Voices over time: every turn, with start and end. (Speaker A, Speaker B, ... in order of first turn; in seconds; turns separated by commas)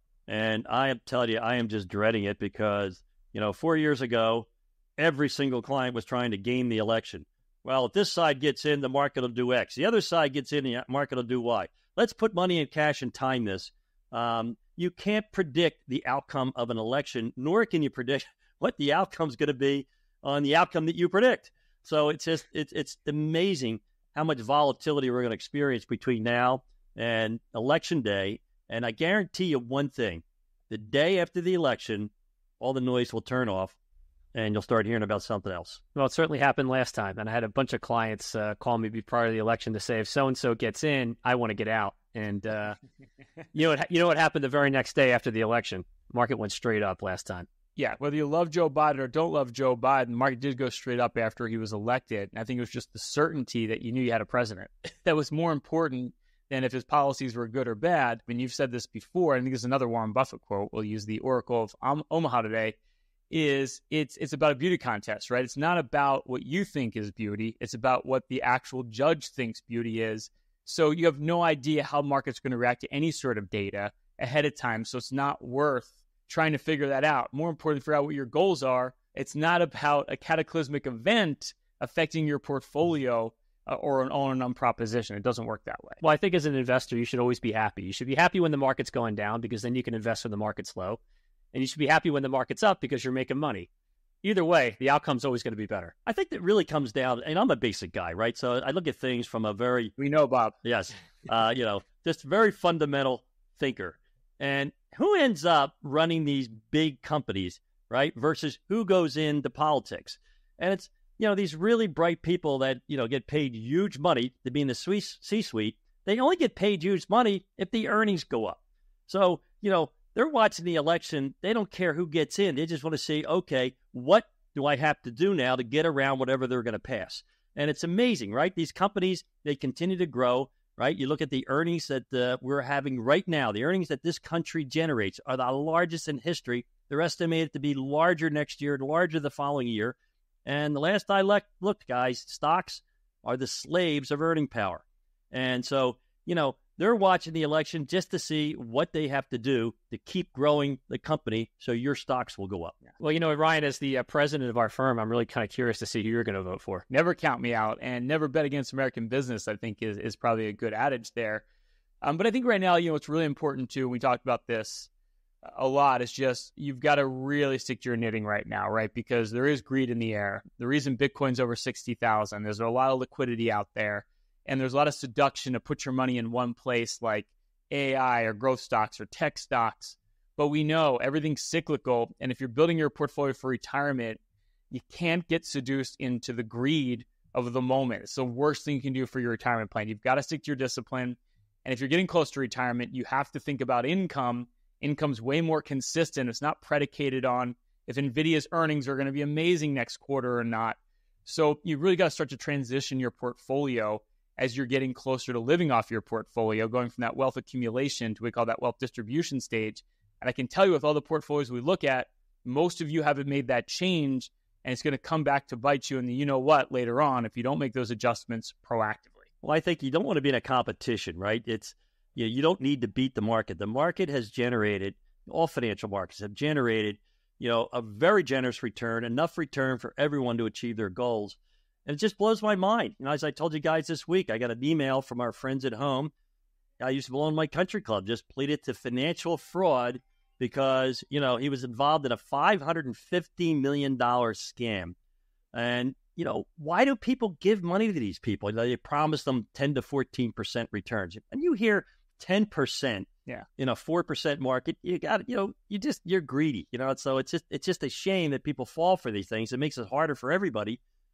Speaker A: 0.3-33.8, Speaker A: 34.3-35.8, Speaker B: 35.9-42.8, Speaker B: 43.5-47.5, Speaker C: 47.8-62.8, Speaker C: 63.3-86.0, Speaker B: 86.0-91.0, Speaker B: 91.5-93.7, Speaker B: 94.2-95.9, Speaker A: 96.0-99.9, Speaker C: 100.0-100.5, Speaker A: 100.6-152.8, Speaker B: 153.0-156.8, Speaker C: 156.9-161.4, Speaker C: 162.0-164.9, Speaker C: 165.4-184.2, Speaker C: 184.7-219.2, Speaker A: 219.4-236.1, Speaker A: 236.8-244.9, Speaker A: 245.5-260.8